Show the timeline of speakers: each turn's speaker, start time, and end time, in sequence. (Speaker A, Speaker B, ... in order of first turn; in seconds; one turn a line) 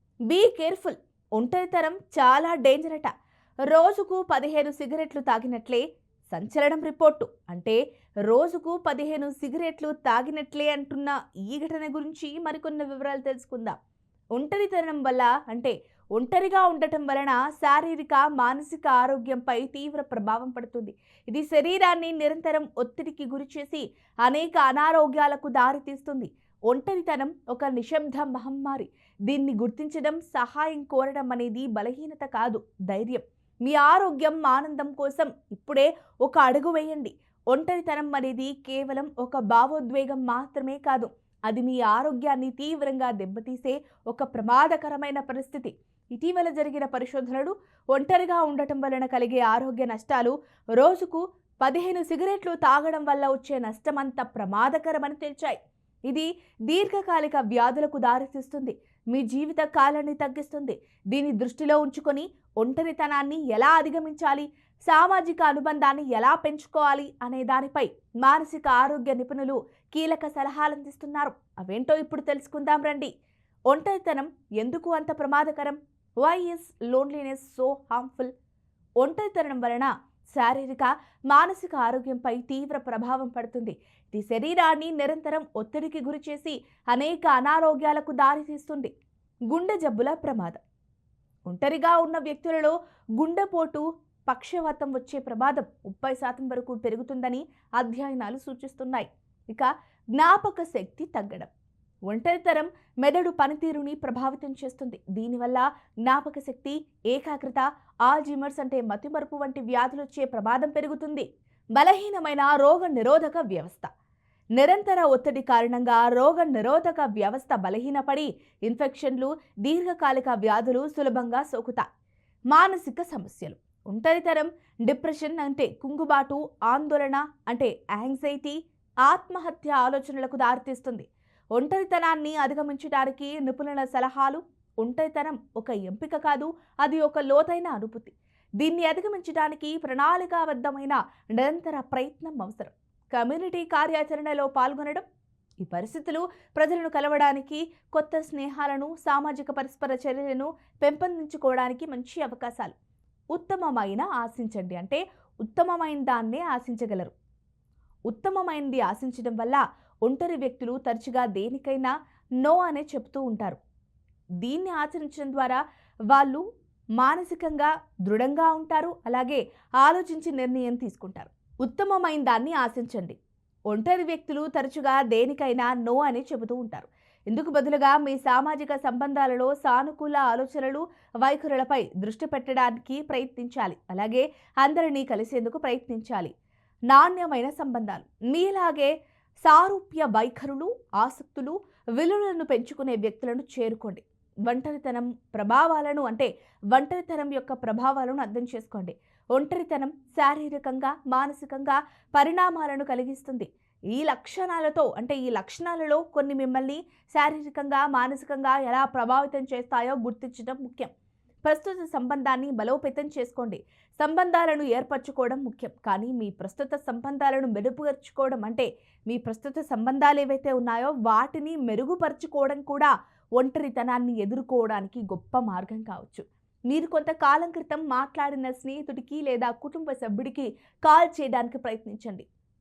Speaker A: 0.3-3.1
Speaker A: 3.7-13.8
Speaker A: 14.3-73.1
Speaker A: 73.7-78.3
Speaker A: 79.0-88.9
Speaker A: 89.5-90.6
Speaker A: 91.5-101.5
Speaker A: 102.1-113.9
Speaker A: 114.6-121.8
Speaker A: 122.5-145.0
Speaker A: 145.6-152.7
Speaker A: 153.3-157.1
Speaker A: 158.1-161.9
Speaker A: 162.4-163.6
Speaker A: 164.4-166.4
Speaker A: 167.0-173.2
Speaker A: 173.7-186.3
Speaker A: 186.9-188.9
Speaker A: 189.4-210.9
Speaker A: 211.4-232.3